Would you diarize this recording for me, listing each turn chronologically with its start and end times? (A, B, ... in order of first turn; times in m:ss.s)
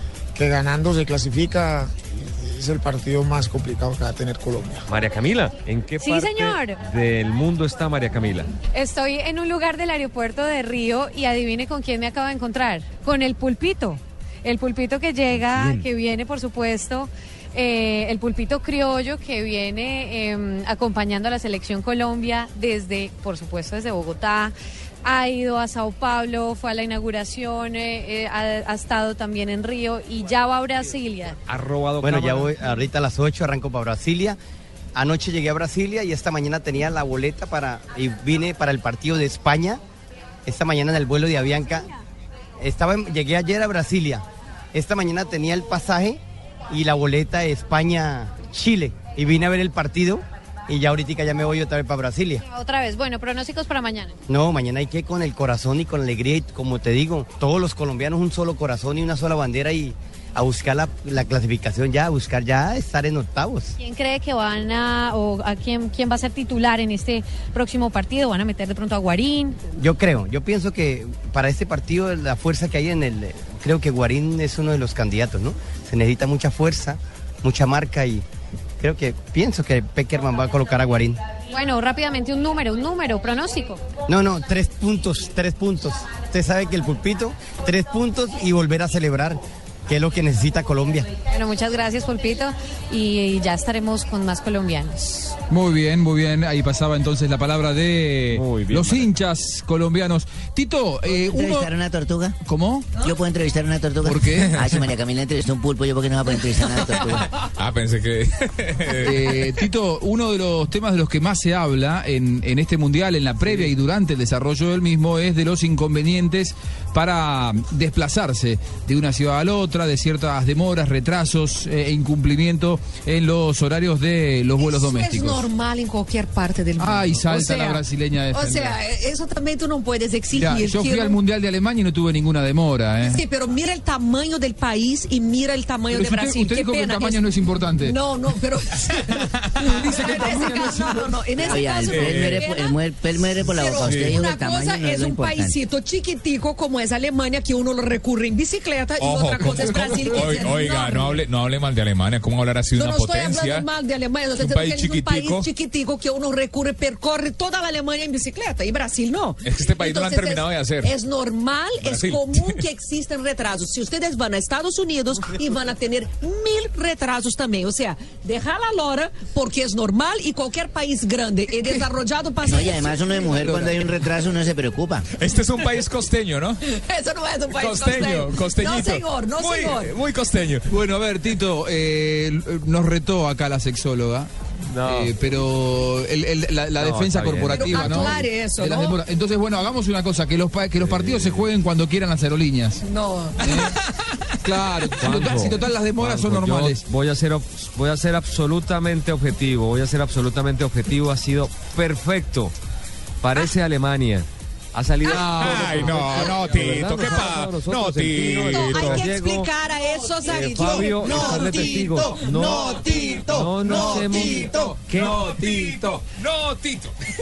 0:00.3-0:04.8 A
0:04.9-0:08.6 B
0:06.0-0:06.8 C
0:08.7-0:31.4 C
0:31.5-0:32.6 B
0:32.0-0:34.4 D
0:35.0-0:39.8 D
0:40.5-0:41.9 D
0:42.6-0:46.2 D
0:46.7-0:52.4 D
0:52.4-0:54.2 C
0:54.3-1:03.8 D
1:03.8-1:09.6 C
1:09.8-1:18.2 D
1:18.8-1:21.2 D
1:21.5-1:23.8 C
1:24.1-1:31.1 D
1:31.3-1:35.3 C
1:35.5-1:41.7 E
1:38.3-1:39.1 B
1:41.3-1:42.1 F
1:42.4-1:42.9 E
1:43.1-1:47.3 F
1:44.0-1:44.7 E
1:47.6-1:49.2 G
1:49.0-2:05.5 E
2:04.6-2:11.2 H
2:06.8-2:08.8 E
2:10.3-2:13.2 E
2:13.0-2:17.2 H
2:15.9-2:18.0 E
2:17.8-2:22.8 H
2:19.6-2:21.0 E
2:21.4-2:25.5 F
2:21.8-2:22.4 G
2:23.4-2:31.2 H
2:23.8-2:24.2 G
2:29.0-2:33.7 G
2:32.7-2:53.4 H
2:34.4-2:35.5 G
2:39.4-2:40.9 G
2:41.8-2:42.6 G
2:52.5-2:55.0 F
2:55.2-2:56.6 G
2:56.7-2:59.9 H
2:57.5-3:00.6 G
3:00.7-3:04.3 E
3:04.7-3:05.1 B
3:04.8-3:12.8 E
3:06.8-3:08.2 B
3:07.5-3:09.0 H
3:10.8-3:11.5 B
3:12.8-3:13.6 H
3:13.4-3:13.7 E
3:14.4-3:16.8 E
3:15.0-3:22.5 B
3:23.2-3:29.5 B
3:25.0-3:29.1 G
3:28.4-3:31.6 H
3:30.3-3:35.6 B
3:35.0-3:36.9 G